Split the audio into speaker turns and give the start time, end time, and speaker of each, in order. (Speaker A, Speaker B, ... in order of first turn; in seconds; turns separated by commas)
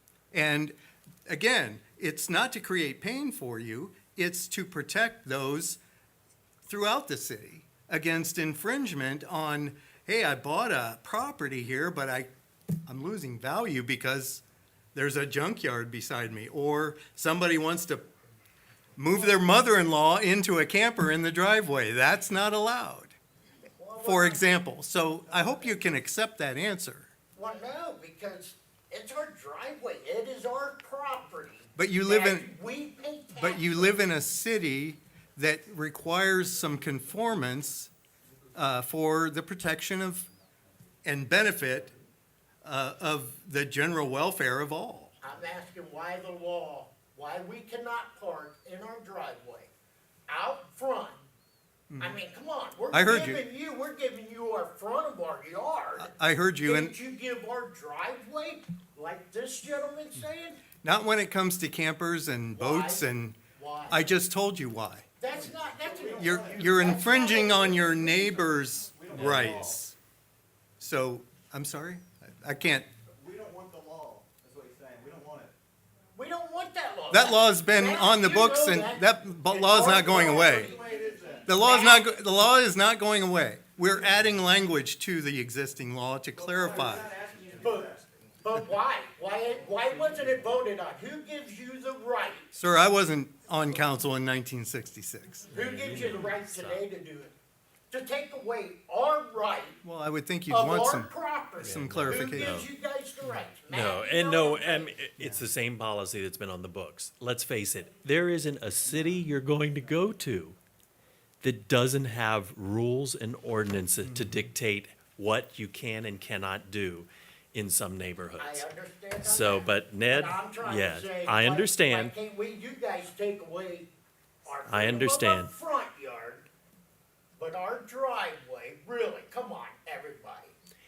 Speaker A: 0.3-0.7, Speaker A: 1.3-5.8, Speaker A: 6.7-12.3, Speaker A: 12.9-14.4, Speaker A: 14.9-18.1, Speaker A: 18.9-23.1, Speaker B: 23.6-24.6, Speaker A: 24.0-27.1, Speaker B: 25.3-25.8, Speaker B: 27.3-34.0, Speaker A: 31.7-32.5, Speaker A: 33.4-37.9, Speaker A: 38.5-40.3, Speaker A: 41.0-41.9, Speaker A: 42.6-45.1, Speaker B: 45.2-49.7, Speaker B: 50.3-51.2, Speaker A: 51.9-52.2, Speaker B: 52.0-56.1, Speaker A: 52.9-53.4, Speaker A: 56.0-56.9, Speaker B: 56.6-60.6, Speaker A: 60.8-63.4, Speaker B: 62.5-64.0, Speaker A: 63.9-65.2, Speaker B: 65.2-68.3, Speaker C: 65.5-67.1, Speaker A: 66.2-69.9, Speaker C: 68.9-69.8, Speaker A: 70.8-72.9, Speaker C: 73.0-75.5, Speaker B: 76.1-82.1, Speaker A: 77.1-80.7, Speaker C: 79.7-81.7, Speaker A: 81.5-87.1, Speaker C: 86.3-88.4, Speaker B: 87.6-92.5, Speaker C: 89.7-90.5, Speaker A: 92.5-95.5, Speaker D: 95.5-96.8, Speaker B: 95.5-97.3, Speaker B: 97.9-99.8, Speaker A: 99.8-102.6, Speaker B: 100.5-105.0, Speaker D: 101.6-102.7, Speaker D: 103.7-110.6, Speaker A: 105.2-105.4, Speaker D: 111.4-118.7, Speaker A: 114.0-114.4, Speaker B: 118.4-123.9, Speaker D: 119.2-122.1, Speaker B: 124.4-126.5, Speaker D: 124.6-125.5, Speaker B: 127.4-130.5